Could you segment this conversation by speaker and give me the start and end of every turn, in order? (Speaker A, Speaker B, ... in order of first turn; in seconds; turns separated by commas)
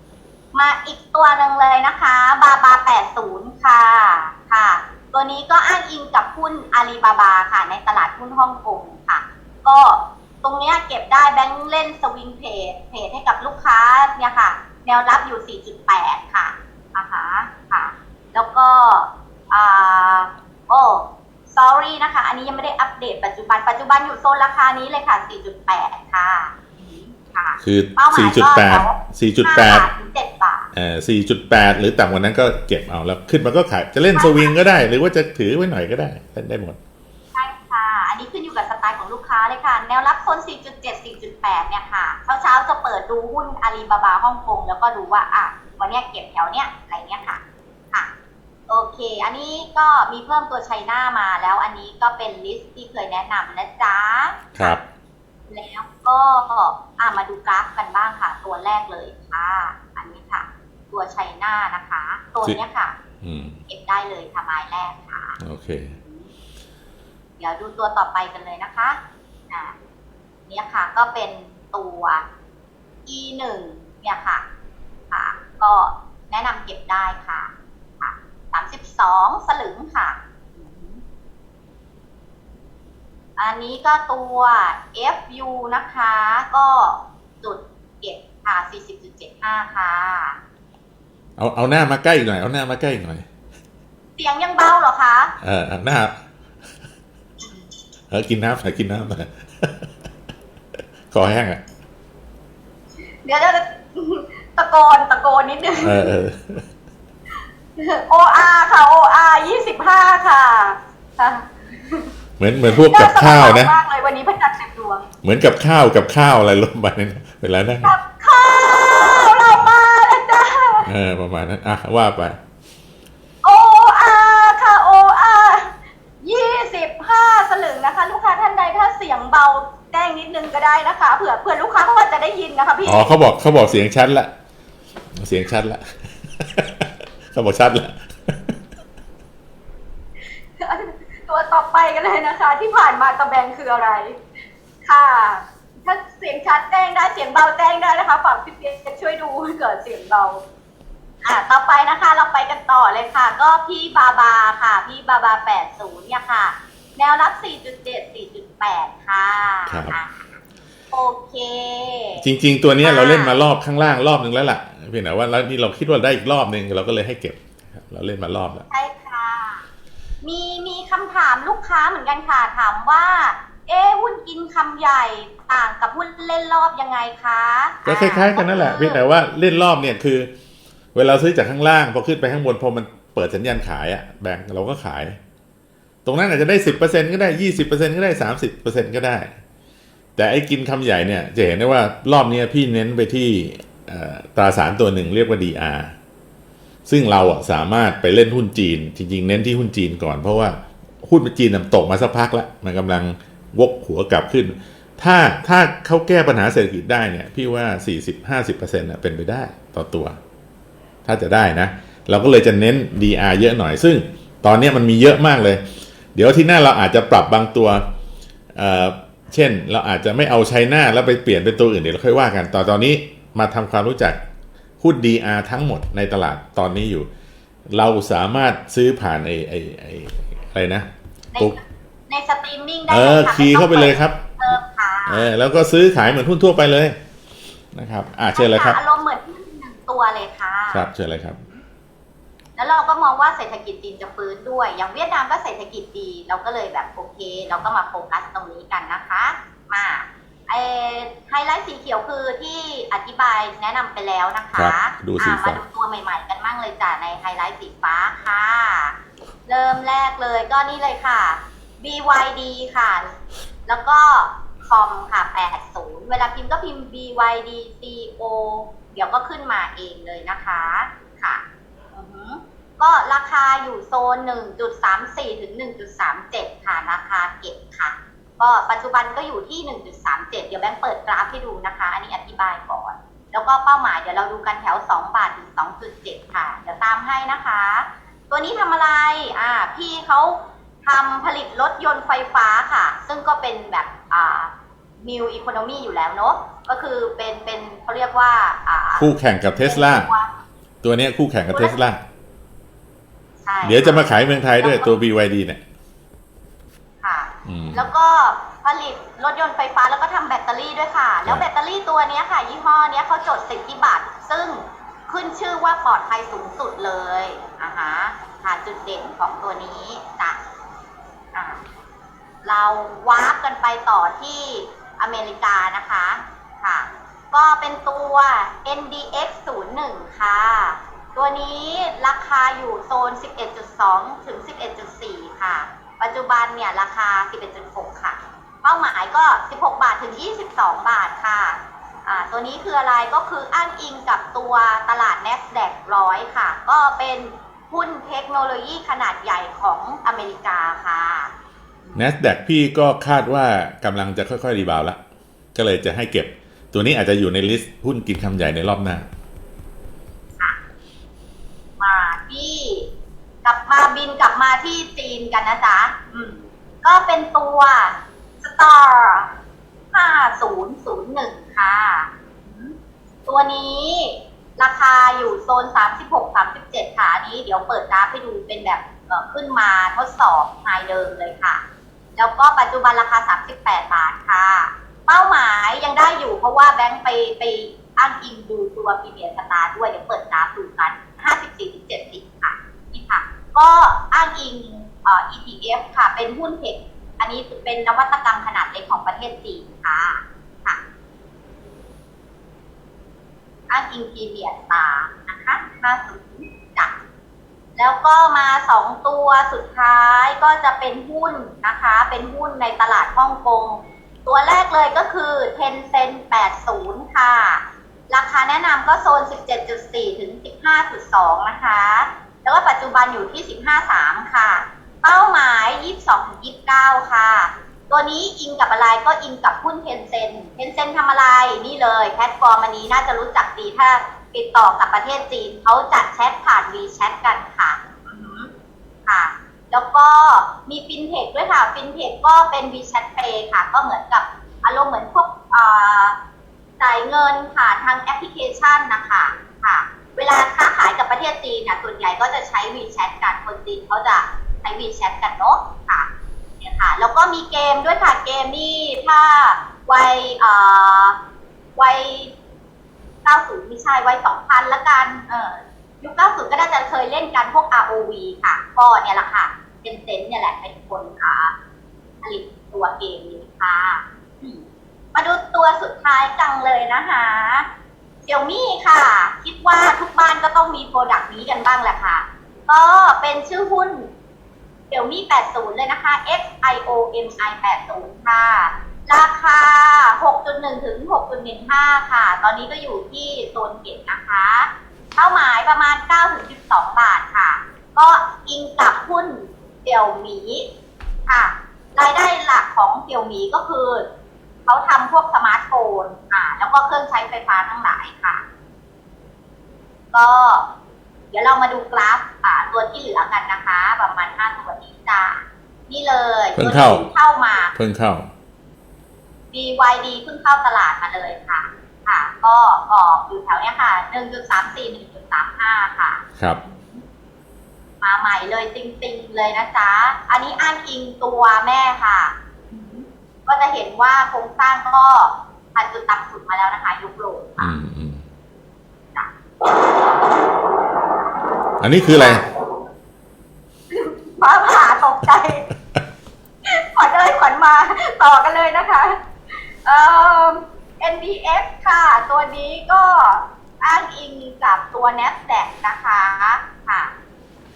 Speaker A: 0.5-30.7, Speaker B: 27.6-29.9, Speaker B: 30.7-36.8, Speaker A: 34.1-34.6, Speaker A: 37.3-48.1, Speaker A: 48.7-54.8, Speaker B: 54.5-54.8, Speaker A: 55.5-63.0, Speaker B: 63.2-63.6, Speaker A: 63.7-66.3, Speaker B: 65.4-66.0, Speaker A: 67.4-69.0, Speaker A: 69.5-69.7, Speaker A: 70.5-72.2, Speaker A: 73.0-74.4, Speaker A: 75.1-81.0, Speaker A: 83.4-90.4, Speaker B: 91.4-93.2, Speaker A: 94.2-95.3, Speaker B: 95.4-96.1, Speaker A: 97.4-97.7, Speaker B: 98.1-99.9, Speaker B: 101.1-101.6, Speaker A: 103.2-106.2, Speaker B: 105.8-106.6, Speaker A: 107.8-112.1, Speaker B: 112.4-113.7, Speaker A: 112.7-115.1, Speaker B: 115.2-117.9, Speaker A: 117.8-120.9, Speaker B: 120.8-122.4, Speaker A: 123.4-133.2, Speaker B: 132.8-134.3, Speaker B: 135.2-138.5, Speaker A: 140.6-144.2, Speaker A: 144.8-150.4, Speaker A: 151.2-160.4, Speaker B: 159.7-159.9, Speaker A: 160.9-162.2, Speaker B: 162.2-168.6, Speaker A: 162.8-163.4, Speaker A: 168.7-169.6, Speaker A: 170.2-179.0, Speaker B: 177.8-180.3, Speaker B: 180.9-185.2, Speaker B: 186.0-189.3, Speaker B: 190.2-195.9, Speaker B: 196.9-210.2, Speaker B: 211.0-215.6, Speaker B: 216.1-217.8, Speaker B: 218.6-224.2, Speaker B: 224.8-227.1, Speaker B: 227.7-231.5, Speaker A: 231.3-235.3, Speaker B: 232.9-234.2, Speaker B: 235.1-237.0, Speaker B: 237.7-238.8, Speaker A: 238.3-241.6, Speaker B: 240.7-241.4, Speaker A: 242.6-263.1, Speaker B: 254.5-255.6, Speaker A: 263.7-271.4, Speaker A: 271.9-300.3, Speaker B: 299.0-300.1, Speaker B: 300.8-302.0, Speaker A: 301.5-301.8, Speaker A: 303.4-304.9, Speaker B: 303.6-305.6, Speaker A: 307.0-320.4, Speaker B: 307.4-307.9, Speaker A: 321.3-321.6, Speaker A: 322.4-352.1, Speaker B: 351.9-355.0, Speaker B: 355.5-359.1, Speaker A: 361.8-362.9, Speaker A: 363.4-369.4, Speaker A: 369.9-372.7, Speaker A: 373.2-381.6, Speaker A: 382.2-400.8, Speaker A: 403.7-407.0, Speaker A: 407.8-438.5, Speaker A: 439.1-446.2, Speaker A: 446.8-456.1, Speaker A: 456.6-461.2, Speaker A: 461.8-462.3, Speaker A: 463.2-471.5, Speaker A: 472.2-477.7, Speaker A: 478.2-484.1, Speaker A: 484.9-500.6, Speaker A: 501.3-504.1, Speaker A: 504.7-508.4, Speaker A: 510.1-510.7, Speaker A: 511.3-517.7, Speaker B: 516.5-517.1, Speaker B: 517.7-518.3, Speaker A: 519.5-527.0, Speaker A: 528.0-537.8, Speaker B: 537.6-538.2, Speaker A: 539.1-541.3, Speaker B: 541.8-542.4, Speaker A: 542.1-542.8, Speaker A: 543.9-545.7, Speaker A: 546.7-549.2, Speaker A: 549.8-557.1